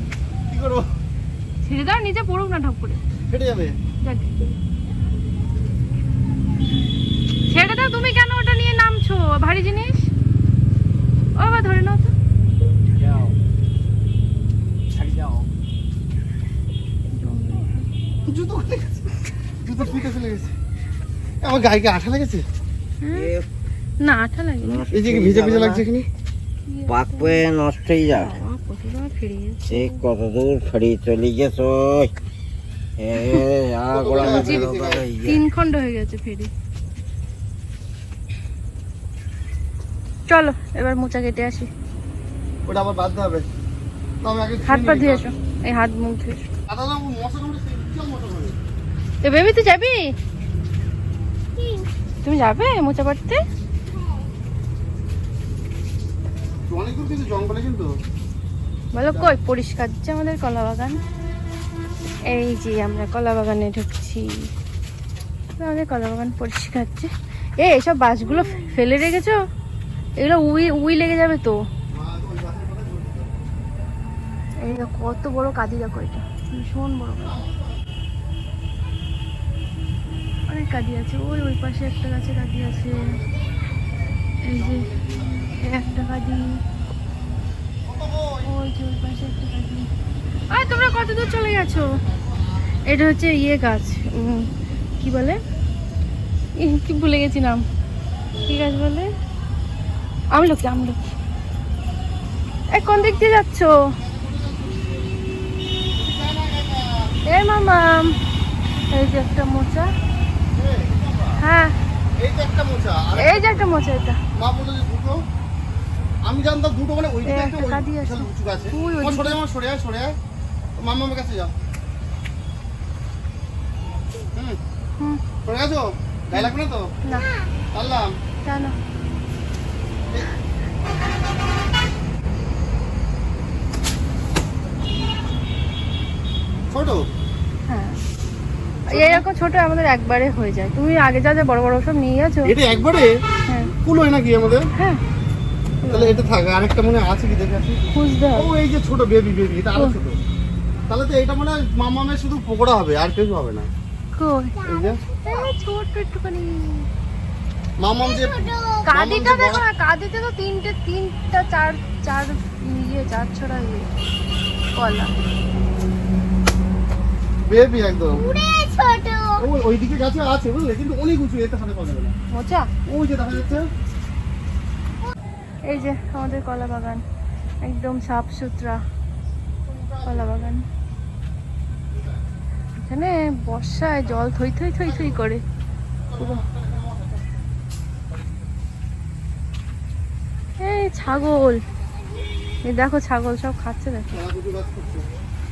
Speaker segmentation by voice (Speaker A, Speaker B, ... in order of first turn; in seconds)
Speaker A: 0.5-0.9, 3.3-3.8, 18.2-20.5, 21.4-22.4, 24.9-26.1, 33.9-35.0, 42.6-43.5, 44.2-45.3, 46.7-48.6, 56.7-57.9, 59.1-59.3, 71.9-73.3, 77.2-77.8, 84.5-85.6, 87.8-88.5, 91.0-92.9, 102.8-103.4, 103.9-105.2, 105.9-107.2, 110.5-111.4, 112.2-113.7, 114.3-115.2, 116.2-120.2, 120.8-121.5, 125.4-126.9, 127.7-128.1, 136.7-137.1, 138.9-139.2, 142.4-143.1, 143.8-144.7, 145.9-150.2, 150.9-153.7, 154.6-155.0, 157.8-159.6, 167.4-168.3, 169.3-172.1, 172.8-173.7, 176.1-176.4, 179.6-180.5, 181.9-182.2, 184.8-185.2, 186.1-187.5, 188.1-188.5, 194.1-195.1
Speaker B: 1.6-3.0, 4.0-4.3, 7.5-10.1, 11.4-12.1, 17.1-17.9, 23.0-23.3, 24.0-24.8, 26.7-27.4, 28.1-30.0, 34.1-36.5, 40.3-41.7, 44.6-46.4, 49.2-50.1, 52.2-53.4, 58.9-61.0, 62.3-64.5, 65.6-69.4, 70.2-71.6, 74.6-77.5, 80.5-83.1, 84.4-86.5, 88.4-89.9, 90.5-91.9, 92.8-94.5, 95.0-95.4, 96.6-97.6, 98.5-99.1, 100.3-101.0, 102.7-103.8, 107.3-108.2, 108.9-109.8, 111.4-111.7, 113.2-114.2, 117.3-119.4, 128.4-128.8, 137.7-138.0, 138.9-142.5, 143.5-143.7, 145.8-146.2, 147.9-148.5, 154.2-154.6, 155.2-156.9, 158.8-163.9, 164.7-165.1, 172.3-172.7, 175.7-177.0, 177.6-178.8, 180.1-180.6, 182.8-185.4, 186.2-186.4, 190.6-191.6, 192.6-194.1
Speaker C: 12.9-13.4, 14.9-15.5, 23.1-23.5, 24.6-25.8, 26.9-28.3, 29.7-32.1, 33.0-35.4
Speaker D: 51.6-51.9, 53.9-54.2, 154.6-155.3, 158.1-158.8, 168.2-169.4